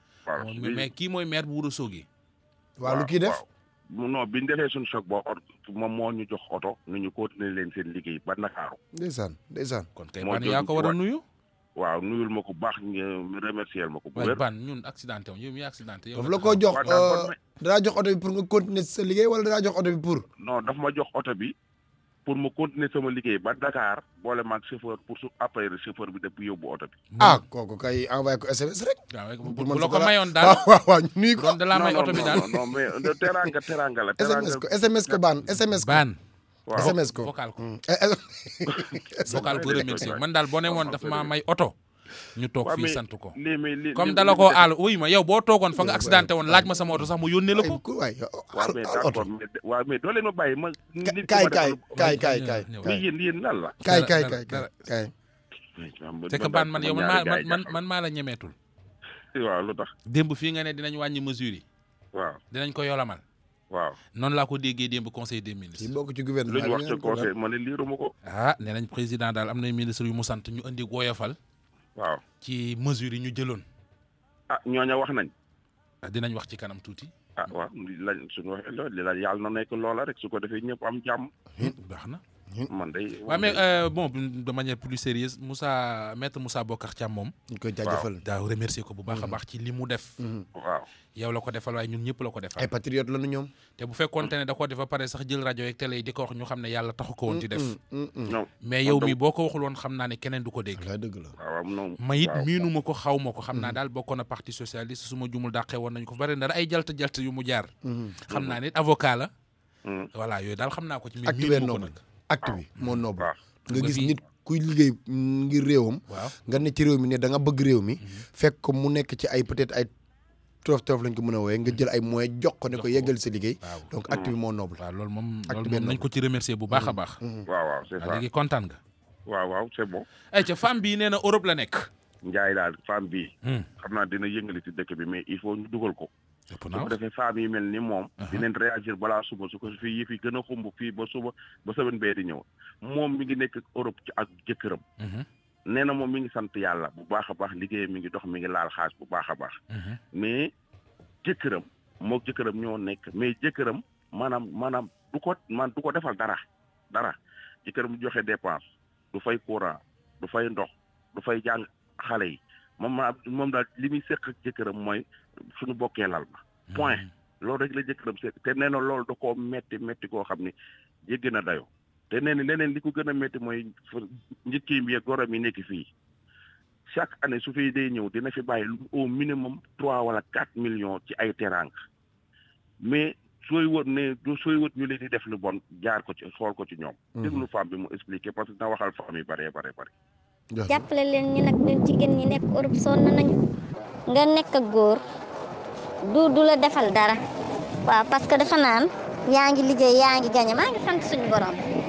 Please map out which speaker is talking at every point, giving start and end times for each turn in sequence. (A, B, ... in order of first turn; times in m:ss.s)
0:00.3-0:00.9 A
0:00.4-0:02.1 B
0:02.8-0:03.4 C
0:02.9-0:08.8 A
0:08.9-0:09.9 C
0:10.0-0:11.2 B
0:10.2-0:11.0 A
0:11.8-0:14.4 A
0:14.2-0:17.0 B
0:16.1-0:20.3 C
0:16.7-0:17.4 A
0:20.4-0:21.5 A
0:22.3-0:27.0 A
0:27.1-0:27.4 B
0:27.2-0:33.5 C
0:29.1-0:30.7 B
0:31.4-0:32.7 B
0:31.7-0:35.2 A
0:34.2-0:36.0 C
0:35.6-0:36.2 B
0:36.7-0:37.0 A
0:36.8-0:37.6 B
0:36.8-0:39.5 C
0:38.7-0:41.3 A
0:39.3-0:41.7 B
0:42.4-0:43.4 B
0:42.6-0:44.7 A
0:43.9-0:47.8 B
0:45.7-0:47.0 C
0:47.5-0:49.2 C
0:48.5-0:52.2 A
0:51.0-0:53.0 C
0:52.0-0:53.0 B
0:52.8-0:53.8 A
0:53.8-0:55.1 C
0:53.8-0:54.7 B
0:55.8-0:57.8 A
0:56.3-0:58.6 B
0:59.3-0:59.9 A
1:00.1-1:01.6 B
1:02.1-1:02.4 A
1:02.5-1:03.2 B
1:03.7-1:04.0 A
1:04.2-1:05.9 B
1:05.8-1:07.3 C
1:06.5-1:08.1 A
1:08.3-1:11.4 B
1:12.0-1:12.2 A
1:12.4-1:13.6 B
1:14.5-1:15.3 A
1:16.0-1:17.1 B
1:17.4-1:21.3 A
1:21.6-1:22.2 B
1:22.7-1:23.6 A
1:23.3-1:27.3 B
1:27.5-1:28.2 C
1:27.8-1:28.1 A
1:28.2-1:30.2 B
1:29.1-1:29.4 C
1:30.2-1:30.4 C
1:30.6-1:30.9 A
1:31.2-1:32.7 B
1:32.6-1:33.5 C
1:33.8-1:37.7 B
1:37.3-1:38.4 C
1:38.3-1:39.2 A
1:38.6-1:40.9 B
1:40.7-1:41.3 C
1:41.4-1:42.6 A
1:42.0-1:47.7 B
1:43.5-1:43.8 C
1:47.8-1:48.2 C
1:48.3-1:49.3 B
1:48.3-1:48.6 A
1:49.8-1:50.1 A
1:50.1-1:52.0 B
1:51.2-1:59.9 C
1:53.7-1:54.2 B
1:56.1-1:56.4 B
2:00.6-2:04.8 C
2:02.7-2:03.9 B
2:04.8-2:07.2 B
2:05.5-2:06.1 C
2:06.7-2:07.5 C
2:07.5-2:08.2 A
2:08.0-2:08.8 B
2:09.3-2:10.1 A
2:10.3-2:11.9 B
2:12.2-2:16.1 A
2:16.5-2:17.0 B
2:16.7-2:24.8 A
2:18.2-2:18.4 B
2:25.0-2:25.3 B
2:25.7-2:29.6 A
2:29.7-2:30.0 B
2:30.1-2:30.5 A
2:31.2-2:36.4 A
2:36.9-2:45.0 A
2:45.6-2:50.5 A
2:46.7-2:47.1 B
2:51.1-2:55.9 A
2:56.9-3:01.8 A
3:02.8-3:09.9 A
3:07.2-3:07.5 C
3:10.5-3:10.9 C
3:10.7-3:13.4 D
3:14.1-3:15.0 D
3:16.0-3:17.2 D
3:17.8-3:21.6 D